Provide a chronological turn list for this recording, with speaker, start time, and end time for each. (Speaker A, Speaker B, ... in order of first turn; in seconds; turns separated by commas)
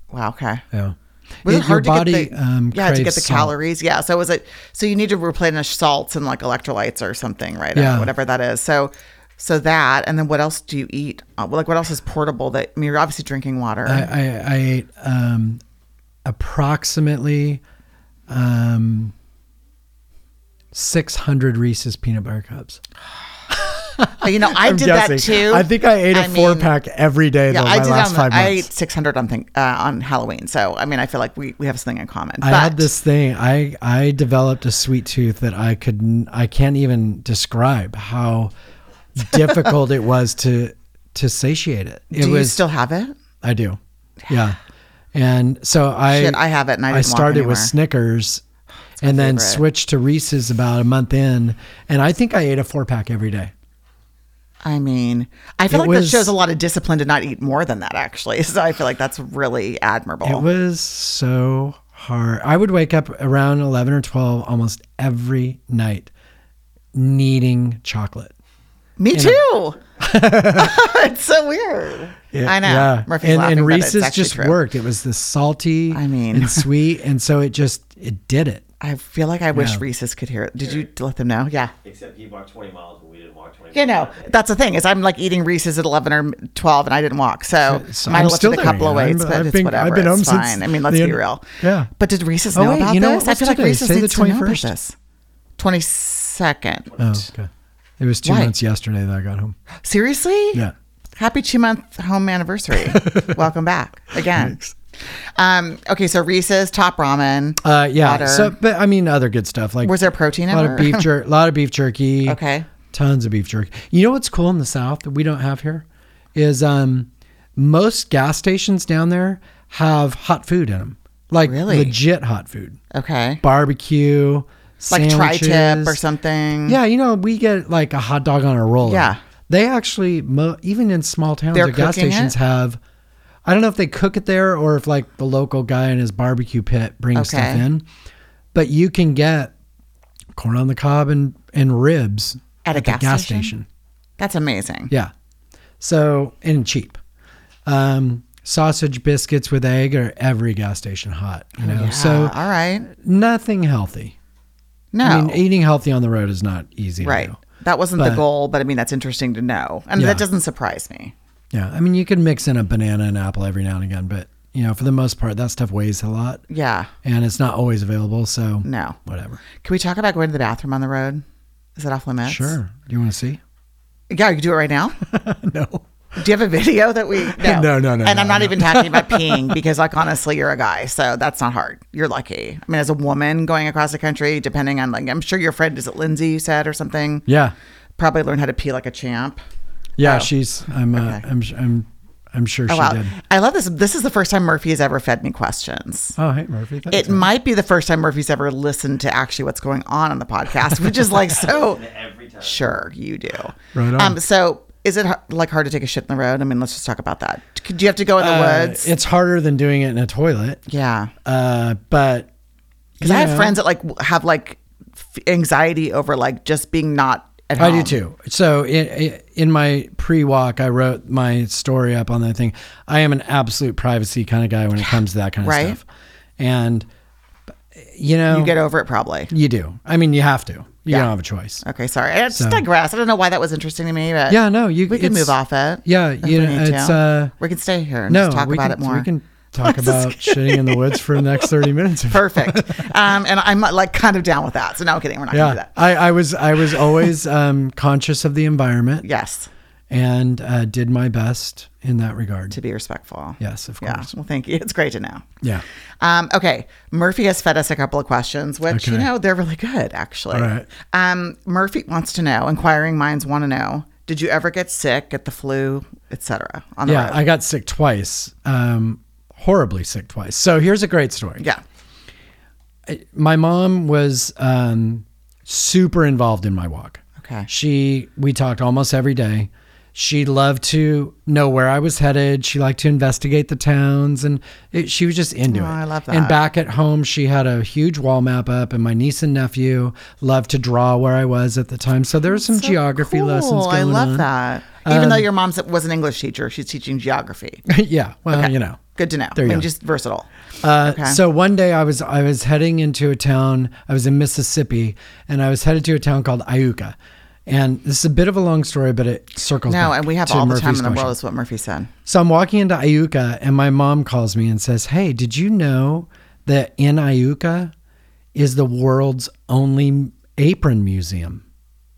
Speaker A: 0.1-0.6, Speaker B: 0.7-3.5, Speaker A: 1.4-14.1, Speaker B: 7.8-8.1, Speaker B: 13.9-15.6, Speaker B: 16.2-17.6, Speaker B: 18.3-19.1, Speaker B: 20.7-22.8, Speaker B: 23.5-28.7, Speaker A: 24.2-26.7, Speaker A: 27.5-32.9, Speaker B: 32.4-38.5, Speaker B: 39.2-42.6, Speaker A: 42.1-43.1, Speaker B: 43.4-44.6, Speaker B: 45.1-46.4, Speaker A: 46.1-47.7, Speaker B: 46.9-48.4, Speaker A: 49.0-49.6, Speaker B: 49.0-53.5, Speaker A: 54.6-60.5, Speaker B: 55.7-56.3, Speaker B: 60.2-66.1, Speaker B: 66.9-68.3, Speaker A: 69.0-69.8, Speaker B: 69.1-69.4, Speaker B: 70.0-70.8, Speaker A: 70.5-74.6, Speaker B: 72.3-78.6, Speaker A: 75.9-76.7, Speaker A: 78.8-81.7, Speaker B: 79.5-79.8, Speaker C: 81.8-84.3, Speaker A: 83.7-95.0, Speaker B: 87.7-91.9, Speaker B: 92.5-94.7, Speaker A: 95.6-97.0, Speaker B: 97.0-99.6, Speaker A: 98.2-98.5, Speaker A: 99.8-100.6, Speaker A: 101.2-104.6, Speaker B: 102.9-103.3, Speaker B: 104.3-104.8, Speaker A: 105.4-108.5, Speaker B: 107.6-110.0, Speaker A: 109.8-111.1, Speaker B: 110.5-112.4, Speaker A: 112.3-112.7, Speaker B: 112.9-122.8, Speaker A: 121.4-122.0, Speaker A: 122.9-123.4, Speaker B: 123.4-126.0, Speaker A: 124.9-126.8, Speaker B: 126.7-132.8, Speaker A: 128.8-129.2, Speaker A: 131.5-132.3, Speaker B: 133.4-137.9, Speaker A: 137.1-137.6, Speaker B: 138.5-139.5, Speaker B: 140.3-143.7, Speaker A: 142.6-143.5, Speaker A: 144.2-144.9, Speaker B: 145.8-147.0, Speaker B: 147.7-152.4, Speaker A: 151.6-152.9, Speaker B: 152.9-154.2, Speaker A: 154.9-155.4, Speaker B: 155.0-157.4, Speaker A: 157.0-161.1, Speaker B: 158.0-158.2, Speaker B: 160.0-160.2, Speaker B: 161.5-166.4, Speaker A: 166.5-166.9, Speaker B: 167.0-169.4, Speaker A: 168.6-169.0, Speaker A: 169.6-171.2, Speaker A: 171.8-172.6, Speaker B: 172.2-173.4, Speaker A: 174.1-175.0, Speaker B: 175.1-175.8, Speaker A: 176.2-187.3, Speaker B: 177.2-179.6, Speaker B: 187.3-187.5, Speaker A: 188.0-189.4, Speaker B: 190.0-193.1, Speaker A: 190.0-190.3, Speaker A: 190.9-191.2, Speaker A: 192.7-196.2, Speaker B: 196.2-197.3, Speaker A: 196.9-201.8, Speaker C: 201.3-202.8, Speaker A: 202.4-208.9, Speaker B: 203.7-204.2, Speaker B: 208.2-210.6, Speaker A: 210.7-211.1, Speaker B: 211.2-212.3, Speaker B: 213.0-213.6, Speaker A: 213.0-218.0, Speaker B: 217.6-225.8, Speaker A: 224.8-225.8, Speaker B: 226.4-226.9, Speaker B: 227.8-228.6, Speaker A: 228.3-229.3, Speaker B: 229.3-231.6, Speaker A: 231.6-239.1, Speaker B: 232.3-232.6, Speaker B: 234.3-237.3, Speaker B: 238.1-242.9, Speaker A: 239.6-241.5, Speaker A: 242.1-245.7, Speaker B: 245.3-249.1, Speaker A: 249.0-249.5, Speaker B: 249.9-252.6, Speaker A: 252.5-255.3, Speaker B: 253.4-254.1, Speaker A: 256.0-267.2, Speaker B: 258.7-259.1, Speaker B: 260.3-260.7, Speaker B: 266.9-271.4, Speaker B: 272.9-294.3, Speaker A: 277.2-277.5, Speaker A: 285.5-286.4, Speaker A: 292.3-297.6, Speaker B: 294.8-295.3, Speaker B: 297.7-298.8, Speaker A: 298.3-300.3, Speaker B: 299.4-299.7, Speaker B: 300.6-311.1, Speaker A: 300.8-301.2, Speaker A: 309.7-311.9, Speaker B: 312.1-317.7, Speaker B: 318.4-321.4